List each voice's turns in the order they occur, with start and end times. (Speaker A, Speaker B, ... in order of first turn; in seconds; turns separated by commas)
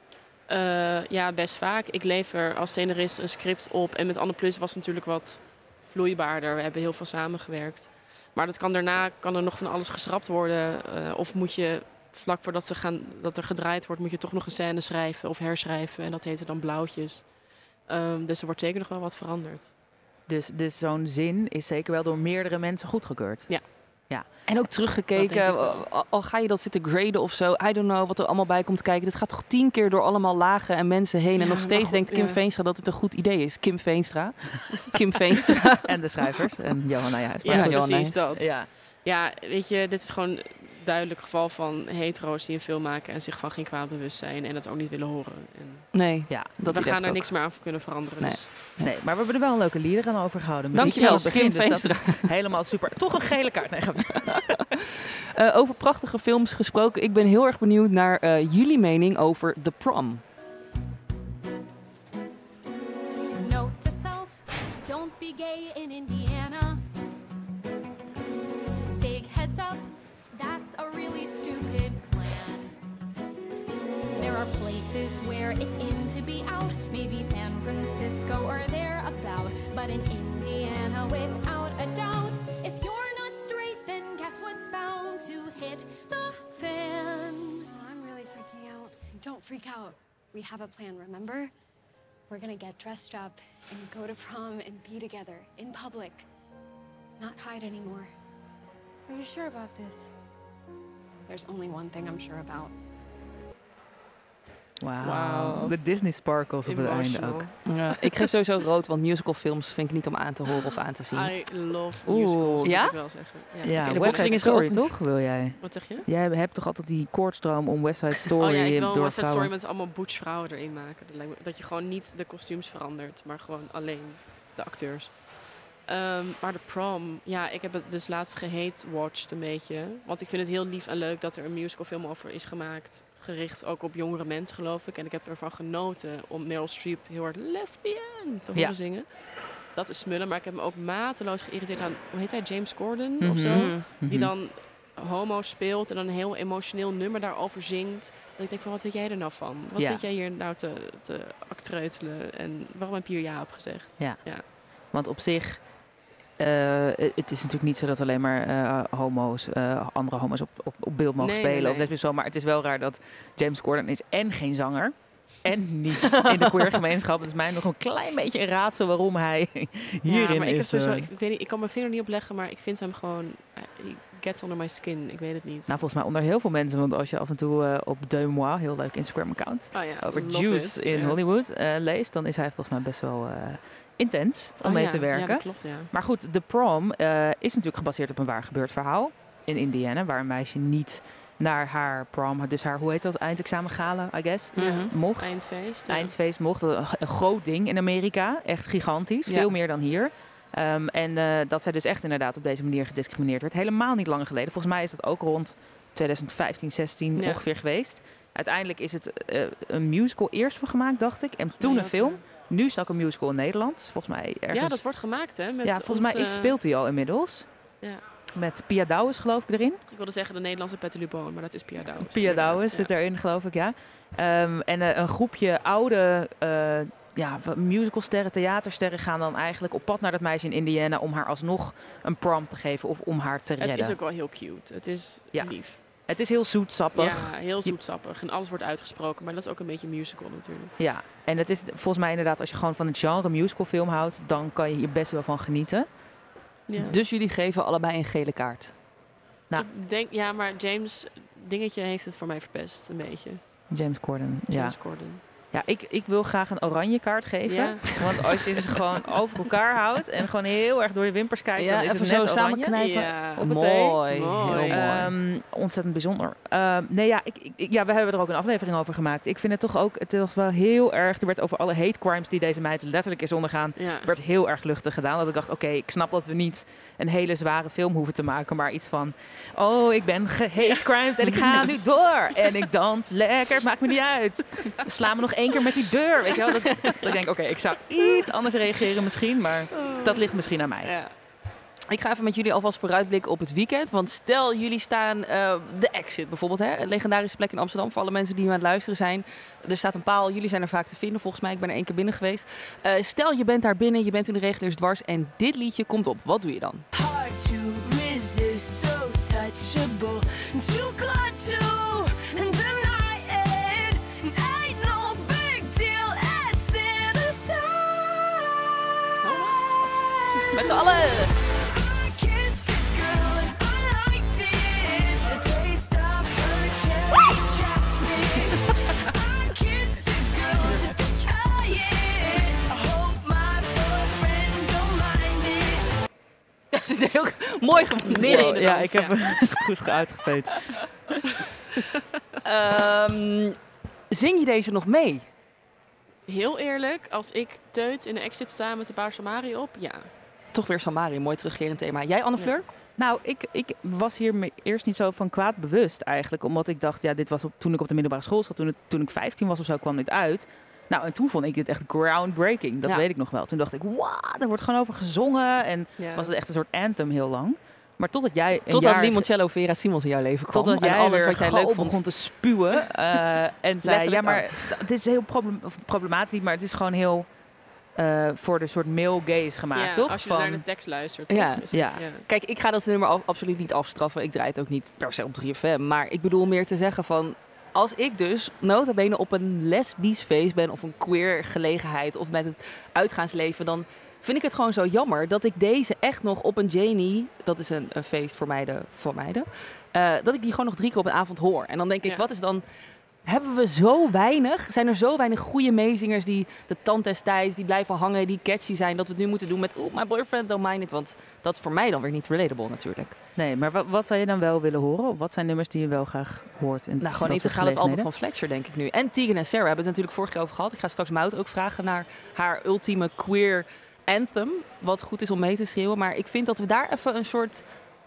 Speaker A: 0.5-19.7, Speaker B: 20.3-24.3, Speaker C: 24.5-35.8, Speaker A: 25.1-25.8, Speaker A: 31.4-32.4, Speaker B: 35.8-38.7, Speaker A: 37.4-48.7, Speaker C: 37.5-38.2, Speaker C: 45.9-47.5, Speaker B: 46.3-46.6, Speaker C: 48.2-48.9, Speaker B: 48.8-54.6, Speaker C: 50.7-52.3, Speaker A: 50.8-51.5, Speaker C: 55.4-60.2, Speaker D: 63.4-66.8, Speaker D: 69.0-72.7, Speaker D: 74.1-87.7, Speaker E: 87.6-91.5, Speaker E: 92.3-96.3, Speaker E: 97.2-98.1, Speaker E: 99.1-100.1, Speaker E: 101.3-102.7, Speaker B: 104.8-107.5, Speaker A: 105.0-105.8, Speaker A: 106.6-108.1, Speaker C: 107.6-111.3, Speaker A: 111.1-114.4, Speaker B: 112.0-112.7, Speaker C: 112.6-113.0, Speaker B: 113.6-119.5, Speaker C: 113.8-114.9, Speaker A: 115.6-116.0, Speaker A: 118.4-139.1, Speaker A: 139.6-154.4, Speaker B: 143.2-144.3, Speaker C: 143.5-143.8, Speaker B: 149.8-150.0, Speaker B: 154.0-155.6, Speaker B: 156.4-171.1, Speaker A: 161.2-161.9, Speaker A: 170.1-175.7, Speaker B: 175.7-214.8, Speaker A: 179.7-181.2, Speaker A: 184.6-185.9, Speaker A: 194.5-196.1, Speaker C: 194.6-194.9, Speaker A: 207.2-207.4, Speaker A: 211.6-212.2, Speaker A: 214.5-216.6, Speaker B: 215.6-217.5, Speaker B: 218.3-219.8, Speaker A: 219.9-222.9, Speaker B: 222.0-234.0, Speaker A: 233.6-235.8, Speaker B: 235.3-237.8, Speaker A: 236.9-240.7, Speaker B: 240.8-245.9, Speaker A: 246.7-246.9, Speaker C: 246.8-248.7, Speaker A: 249.6-253.4, Speaker B: 253.7-262.7, Speaker A: 254.5-255.2, Speaker A: 257.5-258.0, Speaker C: 261.6-265.1, Speaker A: 262.8-265.0, Speaker B: 264.4-290.9, Speaker A: 273.8-274.1, Speaker A: 280.6-281.7, Speaker A: 289.8-290.2, Speaker A: 290.8-291.1, Speaker C: 291.9-306.9, Speaker F: 306.9-320.5, Speaker A: 319.2-319.9, Speaker C: 320.5-321.3, Speaker F: 321.1-335.9, Speaker C: 336.7-338.6, Speaker A: 338.1-339.2, Speaker B: 338.2-341.2, Speaker C: 342.4-343.6, Speaker C: 344.1-345.2, Speaker A: 346.3-350.1, Speaker C: 350.5-352.7, Speaker B: 353.0-369.3, Speaker A: 366.0-366.3, Speaker C: 368.7-372.0, Speaker B: 370.5-377.3, Speaker C: 373.8-374.7, Speaker B: 377.9-380.6, Speaker A: 379.7-382.2, Speaker C: 381.3-402.6, Speaker B: 381.7-382.0, Speaker C: 403.2-413.2, Speaker B: 413.4-418.1, Speaker C: 417.0-427.6